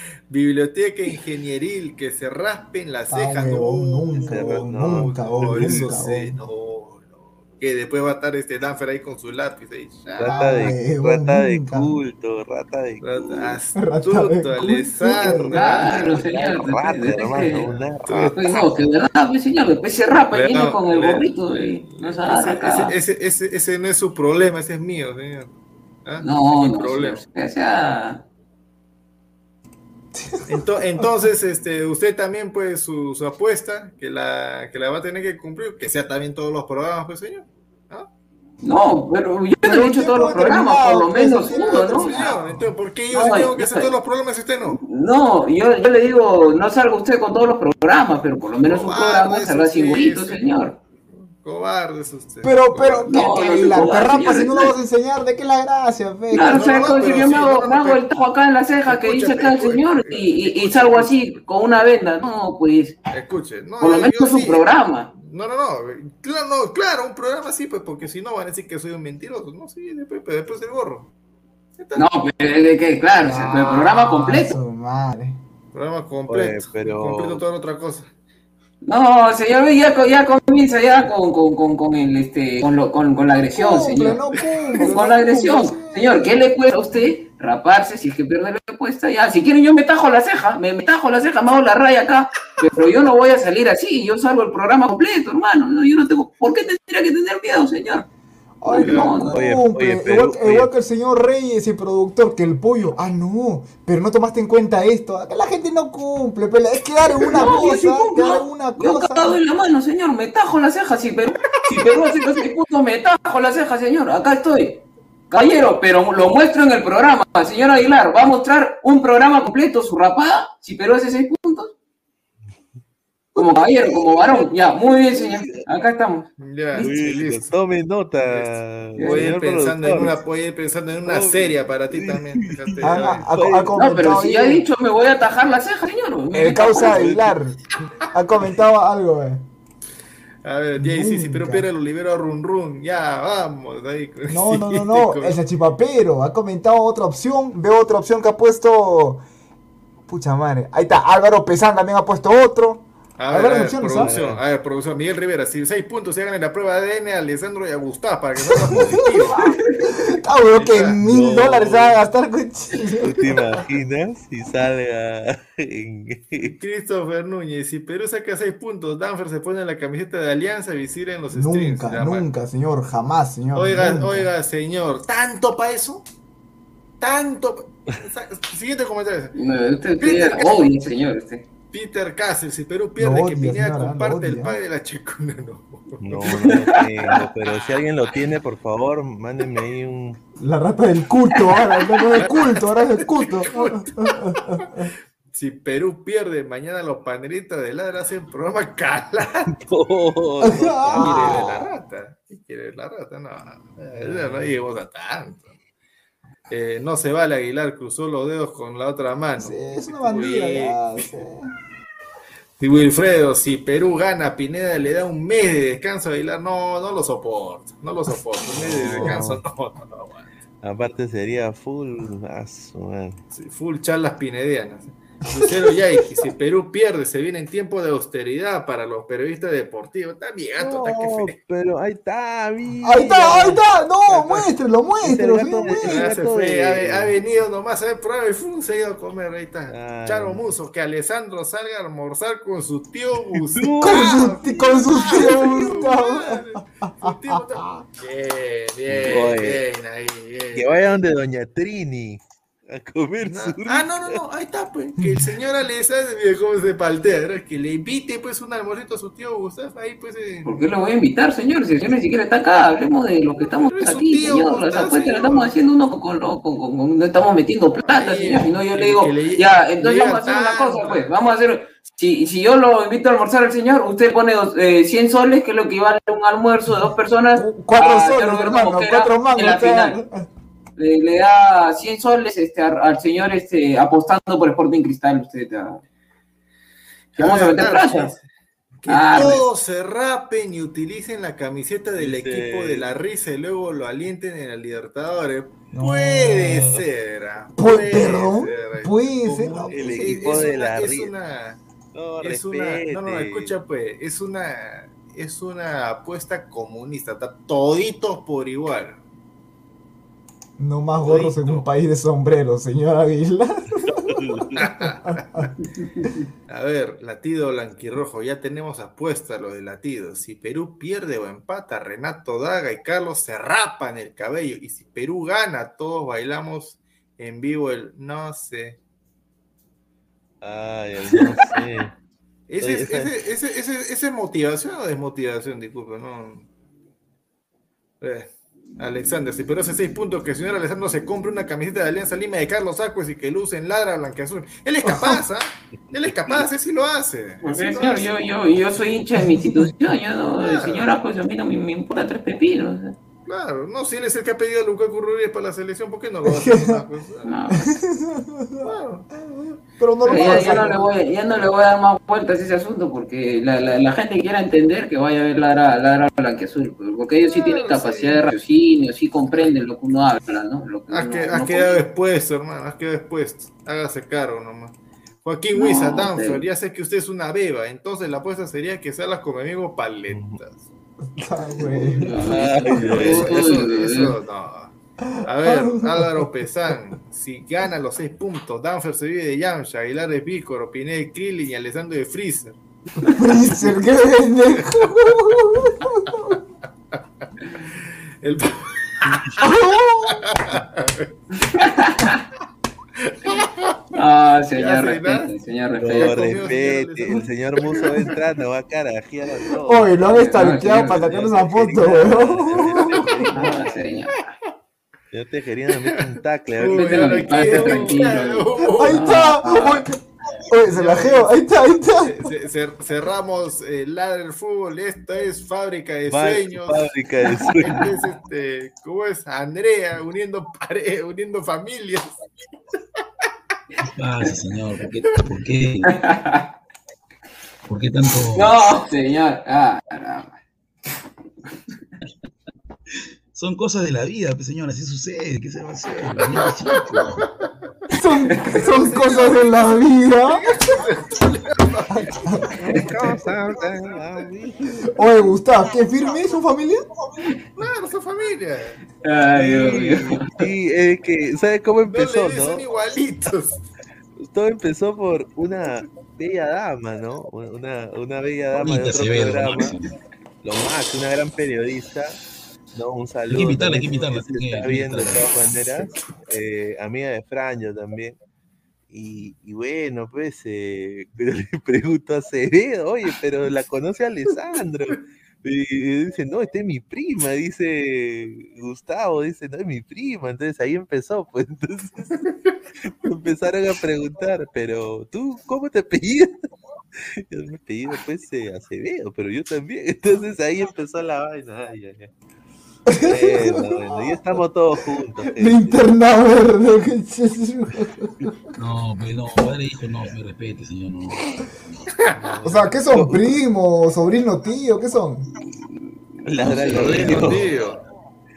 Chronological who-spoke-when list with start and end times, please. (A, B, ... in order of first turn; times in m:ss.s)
0:00.3-0:10.7 A
0:03.1-0:06.4 B
0:04.1-0:05.9 C
0:10.2-0:13.6 C
0:10.2-0:12.0 B
0:13.0-0:16.2 A
0:13.7-0:15.6 B
0:15.5-0:17.6 D
0:15.5-0:18.4 C
0:17.0-0:18.4 A
0:18.3-0:23.0 D
0:20.3-0:25.5 A
0:26.0-0:27.2 A
0:26.2-0:28.2 D
0:30.1-0:31.1 B
0:30.4-0:38.1 A
0:38.6-0:42.2 D
0:39.6-0:42.7 B
0:41.5-0:44.8 A
0:43.1-0:43.9 D
0:44.7-0:50.8 D
0:48.6-0:50.5 A
0:51.2-0:53.9 A
0:52.4-0:57.0 B
0:53.1-0:54.7 D
0:56.3-0:58.0 A
0:56.3-1:03.0 D
0:58.9-1:01.2 A
1:03.1-1:04.6 A
1:03.8-1:05.1 D
1:05.2-1:11.1 A
1:11.8-1:12.3 A
1:11.9-1:14.6 D
1:13.2-1:15.4 B
1:15.7-1:18.1 A
1:16.3-1:17.4 C
1:18.8-1:24.2 D
1:23.5-1:26.2 B
1:24.8-1:38.1 D
1:38.6-1:49.4 B
1:38.6-1:39.4 D
1:38.8-1:39.3 A
1:39.3-1:40.7 C
1:47.3-2:01.7 D
2:03.4-2:06.9 D
2:03.4-2:04.5 C
2:05.0-2:05.6 C
2:06.4-2:07.5 A
2:06.8-2:10.2 C
2:08.2-2:13.3 A
2:09.0-2:09.3 D
2:11.0-2:13.8 C
2:12.8-2:14.6 B
2:13.8-2:17.0 D
2:16.3-2:17.6 B
2:16.7-2:17.4 C
2:18.1-2:19.4 B
2:20.4-2:25.4 A
2:20.8-2:21.7 B
2:24.3-2:29.2 B
2:30.1-2:34.2 B
2:33.2-2:39.4 A
2:33.9-2:34.4 C
2:38.5-2:43.6 B
2:38.6-2:39.1 C
2:40.5-2:41.0 A
2:41.0-2:42.0 C
2:43.0-2:46.5 C
2:46.4-2:52.3 A
2:51.3-2:54.3 B
2:53.5-2:56.0 A
2:57.0-2:59.3 A
2:59.3-3:01.4 D
3:00.0-3:00.6 A
3:01.7-3:06.6 A
3:03.0-3:04.6 B
3:06.0-3:10.2 C
3:06.4-3:07.2 D
3:07.4-3:07.8 A
3:10.4-3:14.9 B
3:12.1-3:14.7 A
3:15.3-3:19.5 A
3:19.5-3:21.6 C
3:20.4-3:21.7 B
3:21.0-3:25.5 A
3:24.0-3:24.5 C
3:26.5-3:30.8 A
3:29.4-3:31.5 B
3:32.6-3:40.3 A
3:38.5-3:39.4 C
3:38.9-3:39.2 B
3:40.6-3:43.2 C
3:43.3-3:51.3 A
3:45.3-3:46.3 B
3:50.6-3:53.6 C
3:52.8-3:56.1 B
3:54.1-3:54.5 A
3:55.0-3:57.2 C
3:55.8-4:10.7 A
3:59.7-4:00.5 C
4:03.3-4:05.6 C
4:03.8-4:07.8 B
4:08.9-4:09.6 C
4:10.5-4:14.2 C
4:13.2-4:20.6 A
4:15.0-4:15.2 B
4:20.4-4:40.0 D
4:23.6-4:25.5 A
4:27.8-4:31.1 A
4:37.3-4:40.3 B
4:40.8-4:45.8 D
4:47.1-4:48.2 A
4:47.2-4:48.1 D
4:48.8-5:01.6 A
4:48.9-4:49.4 D
4:52.0-4:52.8 C
4:55.7-4:56.8 B
4:57.6-5:00.5 B
4:59.7-5:01.1 C
5:01.9-5:03.5 C
5:02.2-5:09.0 A
5:10.6-5:15.5 B
5:11.0-5:11.7 A
5:14.1-5:14.5 C
5:14.5-5:15.5 A
5:16.5-5:28.8 A
5:30.4-5:31.9 C
5:32.5-5:36.5 A
5:32.6-5:33.1 C
5:38.0-5:48.1 A
5:44.8-5:45.2 B
5:47.4-5:52.9 D
5:50.4-5:50.9 A
5:53.3-5:57.3 A
5:56.2-5:56.8 B
5:57.2-5:57.8 D
5:57.5-5:58.7 B
5:58.6-5:59.1 A
5:59.8-6:00.7 B
6:00.1-6:11.8 D
6:00.1-6:00.8 A
6:07.2-6:08.3 A
6:10.9-6:20.6 A
6:15.5-6:16.4 D
6:20.1-6:20.4 C
6:21.1-6:22.6 B
6:22.0-6:24.1 D
6:22.0-6:24.0 C
6:22.7-6:32.6 A
6:25.2-6:26.3 B
6:33.1-6:36.4 B
6:37.7-6:39.4 A
6:39.4-6:40.4 B
6:40.2-6:41.1 A
6:41.4-6:42.2 D
6:43.0-6:43.8 A
6:43.9-6:46.4 D
6:44.6-6:45.3 A
6:45.8-6:50.0 C
6:45.8-6:48.1 A
6:49.6-6:52.9 B
6:50.1-6:51.3 D
6:51.1-6:53.7 C
6:52.8-6:53.3 A
6:53.3-6:54.1 D
6:55.1-6:58.1 C
6:56.6-6:59.8 A
6:56.7-6:59.7 D
6:58.6-6:59.9 B
7:00.5-7:02.3 B
7:00.7-7:01.3 A
7:02.0-7:06.8 A
7:06.1-7:07.9 C
7:07.4-7:12.1 A
7:13.8-7:15.9 E
7:15.9-7:16.5 D
7:17.7-7:18.6 E
7:18.3-7:20.4 D
7:23.3-7:27.2 E
7:27.2-7:27.4 A
7:27.9-7:30.7 B
7:28.6-7:29.6 A
7:30.3-7:32.5 A
7:31.9-7:32.5 B
7:32.6-7:34.9 C
7:34.9-7:36.8 B
7:37.6-7:38.8 A
7:39.0-7:40.4 D
7:39.4-7:42.6 C
7:41.8-7:43.6 A
7:44.2-7:49.8 C
7:48.5-7:49.9 E
7:50.4-7:52.2 C
7:52.7-7:58.2 C
7:53.3-7:55.8 E
7:58.9-8:12.2 C
8:12.9-8:16.4 C
8:17.0-8:22.1 C
8:22.9-8:24.4 B
8:23.0-8:25.8 C
8:25.3-8:28.4 B
8:28.6-8:31.2 E
8:32.1-8:33.3 C
8:32.4-8:35.3 B
8:36.2-8:37.5 C
8:36.4-8:37.5 E
8:36.6-8:37.2 D
8:36.7-8:37.8 A